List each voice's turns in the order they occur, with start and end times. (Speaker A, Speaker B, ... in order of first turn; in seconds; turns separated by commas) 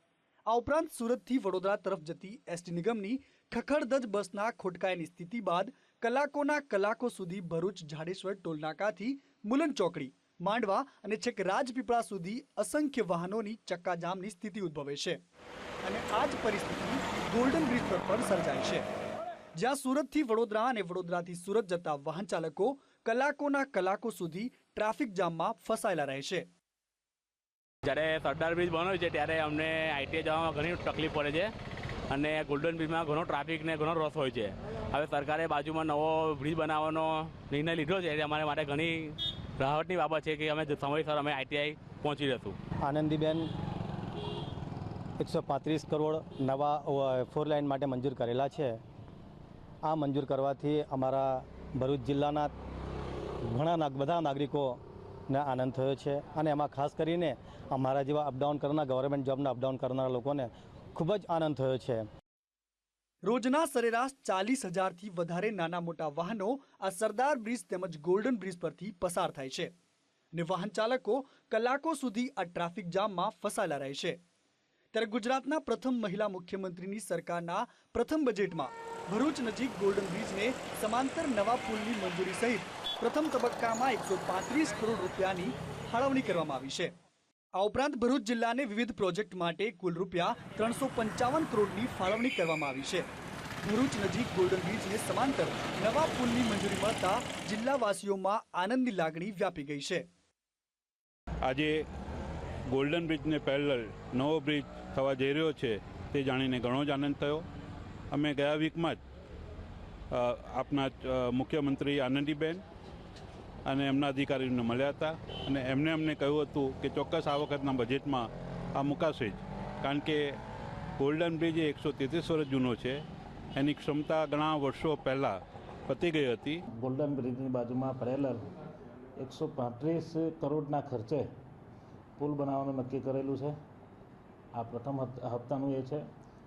Speaker A: 0.5-15.2, Speaker A: 15.8-18.9, Speaker A: 19.6-26.4, Speaker B: 27.8-31.5, Speaker B: 32.1-42.6, Speaker C: 42.8-43.5, Speaker C: 45.2-48.8, Speaker C: 49.8-52.5, Speaker C: 53.5-54.8, Speaker C: 55.3-62.0, Speaker A: 63.2-69.7, Speaker A: 70.3-74.2, Speaker A: 74.9-86.9, Speaker A: 87.5-93.1, Speaker A: 93.6-100.0, Speaker D: 101.4-101.8, Speaker D: 102.7-107.4, Speaker D: 108.1-109.0, Speaker D: 110.1-112.6, Speaker D: 113.7-120.3, Speaker D: 121.0-123.0, Speaker D: 123.6-126.6, Speaker E: 126.7-128.4, Speaker E: 129.2-131.3, Speaker E: 132.2-133.6, Speaker E: 134.5-136.0